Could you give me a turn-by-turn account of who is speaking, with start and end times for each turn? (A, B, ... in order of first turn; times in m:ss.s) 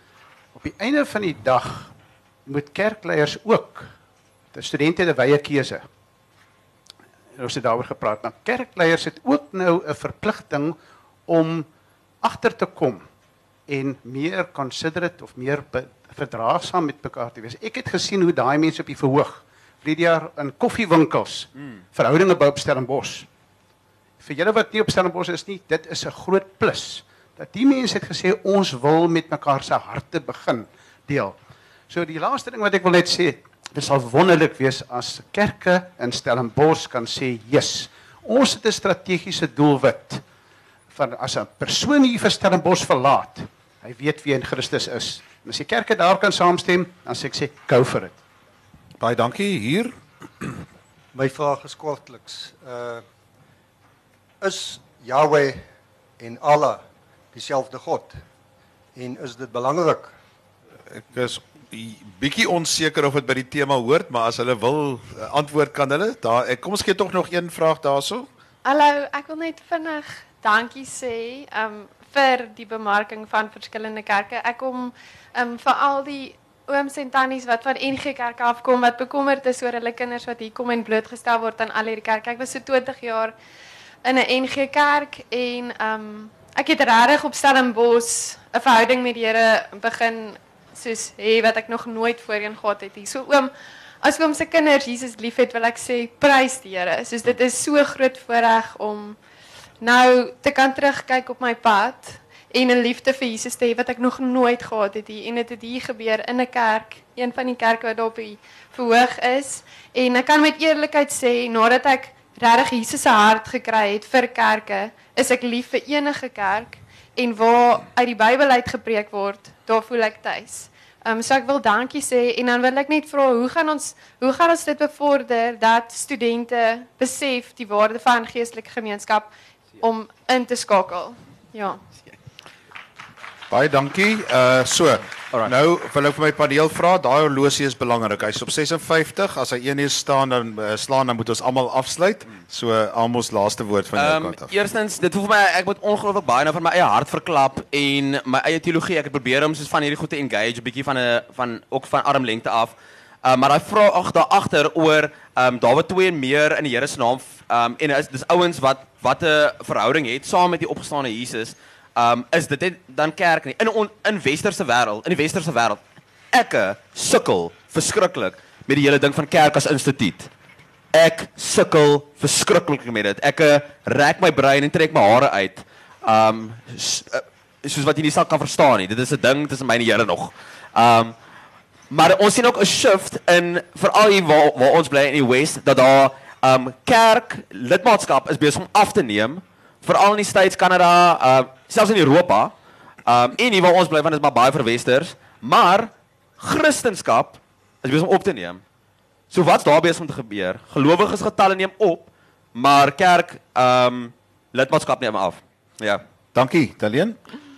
0:00.6-0:01.9 A
0:02.4-0:03.9 A
0:04.5-0:05.8 A
0:07.4-0:10.8 A
0:11.3-0:11.7 A
0:12.2-0:13.0 A
0:13.7-0:23.3 A
0:24.2-0:31.4 A
0:31.9-0:40.2 A
0:40.9-0:48.2 A
0:49.0-0:50.5 B
0:51.1-0:53.0 C
0:54.4-0:55.6 C
0:56.2-0:56.8 C
0:57.3-0:58.2 C
0:58.9-1:00.1 C
1:00.9-1:08.3 B
1:08.6-1:23.3 D
1:24.0-1:33.5 D
1:34.0-1:39.2 D
1:39.8-2:11.8 D
2:13.5-2:24.5 B
2:23.9-2:45.8 E
2:46.3-2:50.3 E
2:50.9-3:01.1 E
3:01.9-3:12.5 E
3:13.0-3:18.6 E
3:19.3-3:26.0 E
3:26.3-3:27.2 B